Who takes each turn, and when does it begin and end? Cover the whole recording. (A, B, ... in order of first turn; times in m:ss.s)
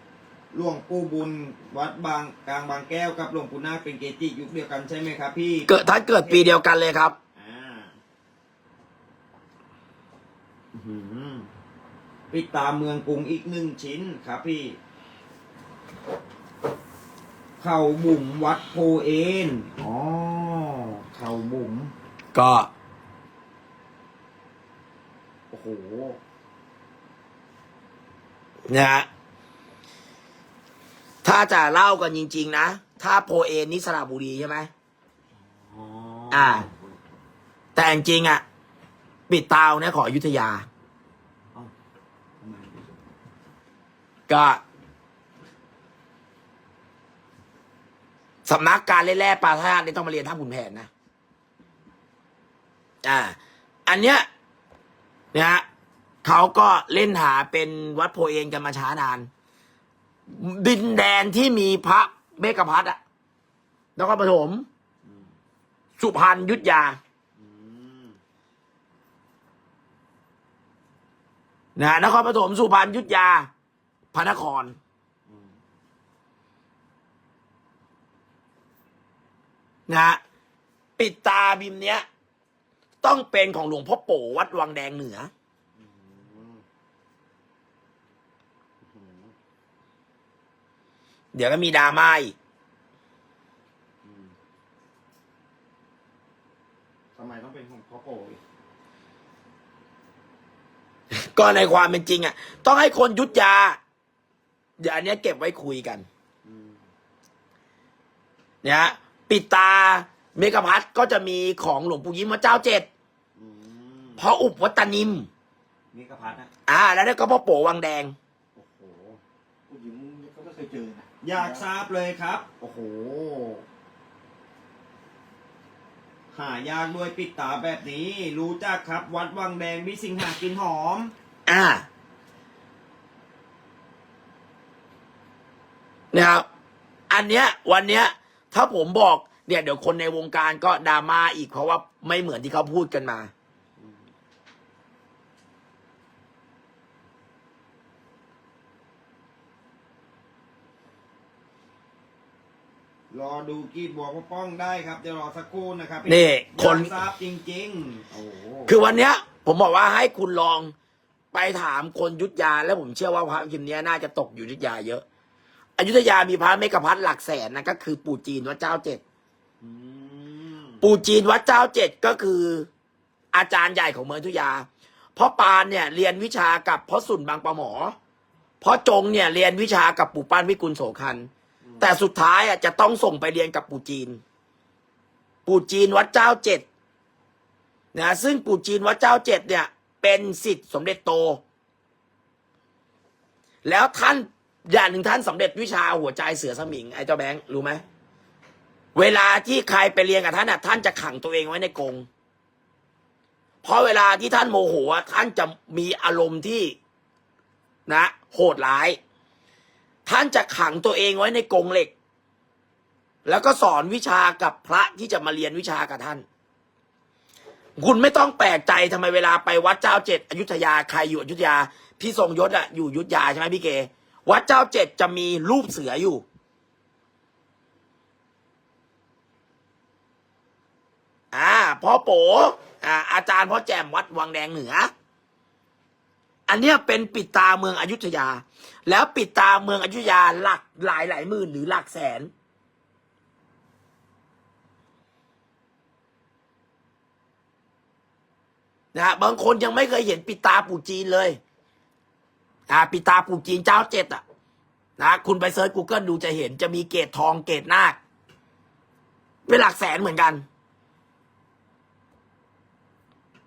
0:00.5-0:06.5 A
0:05.7-0:07.2 B
0:07.4-0:08.0 A
0:10.7-0:11.5 A
0:12.3-0:14.8 A
0:17.6-0:21.9 A
0:22.3-0:22.7 B
0:25.5-0:26.2 A
0:28.7-0:29.1 B
0:31.2-0:34.7 B
0:35.3-0:37.0 A
0:36.3-0:36.6 B
0:37.8-0:38.4 B
0:39.3-0:40.7 B
0:42.4-0:42.9 A
0:44.3-0:44.6 B
0:48.5-0:50.9 B
0:53.0-0:54.2 B
0:55.3-0:55.6 B
0:56.2-0:59.3 B
1:00.3-1:03.0 B
1:04.0-1:04.7 B
1:05.0-1:05.3 A
1:06.0-1:07.0 B
1:07.4-1:08.2 A
1:11.8-1:13.5 B
1:14.1-1:14.8 B
1:15.3-1:15.6 A
1:19.9-1:20.2 B
1:21.0-1:22.0 B
1:23.0-1:25.3 B
1:25.8-1:26.6 A
1:28.8-1:29.3 A
1:31.3-1:32.4 B
1:34.0-1:34.3 A
1:37.2-1:38.4 A
1:41.2-1:43.8 B
1:44.8-1:46.1 B
1:46.4-1:46.8 A
1:48.6-1:52.9 B
1:53.4-1:54.2 A
1:54.2-1:55.3 B
1:55.9-1:56.5 A
1:56.7-1:58.1 B
1:58.6-1:59.2 A
1:59.7-2:01.6 C
2:01.2-2:03.6 A
2:06.3-2:11.1 A
2:11.5-2:11.8 B
2:16.1-2:16.4 B
2:17.1-2:23.3 B
2:23.8-2:24.0 A
2:33.1-2:38.7 A
2:36.1-2:36.9 B
2:38.7-2:40.7 B
2:41.3-2:45.0 B
2:45.8-2:49.0 B
2:49.6-2:50.8 A
2:50.8-2:52.7 B
2:53.3-2:58.0 B
2:58.6-3:01.3 B
3:01.6-3:01.9 A
3:01.8-3:04.2 B
3:05.5-3:06.6 B
3:07.9-3:11.4 B
3:13.6-3:17.8 B
3:19.0-3:22.1 B
3:23.6-3:26.8 B
3:27.9-3:29.0 B
3:30.1-3:31.9 B
3:33.2-3:36.2 B
3:37.8-3:46.2 B
3:51.3-3:54.9 B
3:56.5-4:02.3 B
4:08.9-4:11.4 B
4:12.7-4:14.2 B
4:15.0-4:18.0 B
4:19.5-4:20.4 B